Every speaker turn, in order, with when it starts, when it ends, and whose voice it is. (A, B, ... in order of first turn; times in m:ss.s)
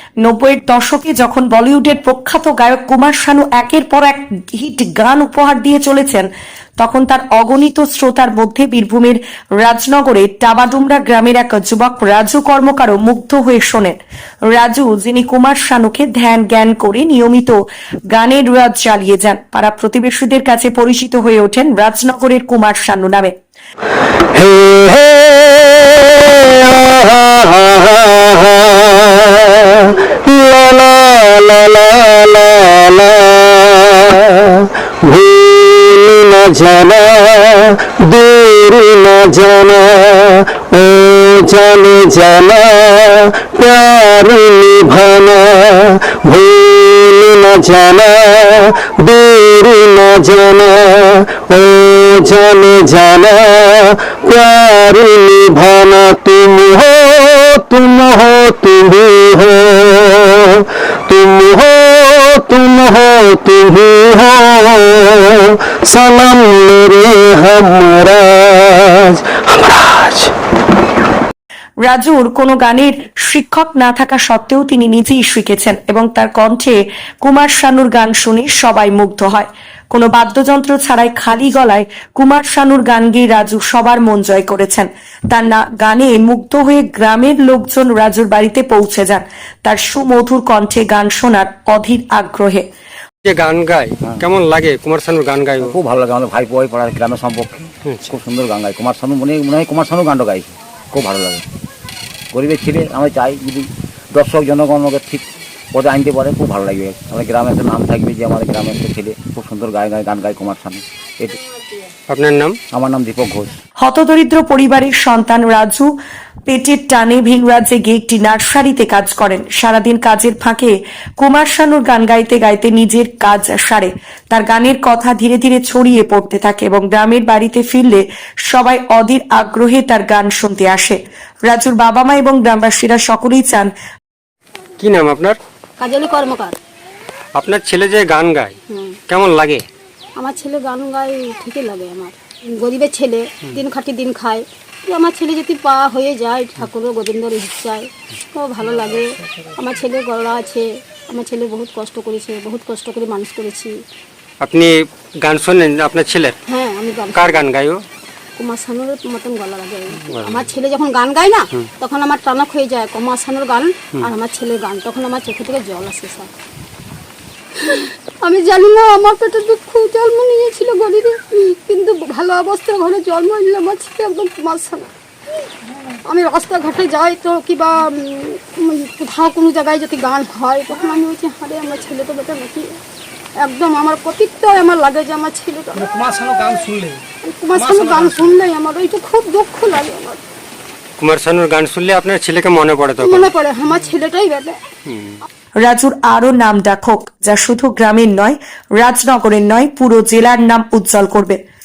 0:00.2-0:06.3 A
0:06.8-0:14.0 A
0:14.5-0:23.4 A
0:24.3-1:10.3 B
1:11.8-1:32.6 A
1:33.2-1:35.7 C
1:35.6-1:41.4 D
1:37.9-1:38.1 C
1:42.3-1:45.2 D
1:45.7-1:51.4 D
1:52.1-1:52.6 C
1:52.7-1:53.6 D
1:53.8-1:55.9 A
1:56.5-2:13.7 A
2:14.8-2:15.4 C
2:15.8-2:16.6 E
2:17.4-2:18.6 C
2:18.7-2:19.0 E
2:19.1-2:19.6 C
2:20.2-2:33.8 E
2:34.4-2:36.4 C
2:36.5-2:37.5 E
2:37.1-2:37.8 C
2:38.4-2:46.3 E
2:40.1-2:40.5 C
2:47.6-2:54.9 E
2:55.9-3:02.8 E
3:03.4-3:10.2 E
3:11.0-3:13.3 C
3:13.0-3:14.6 E
3:14.9-3:15.2 C
3:15.6-3:21.4 A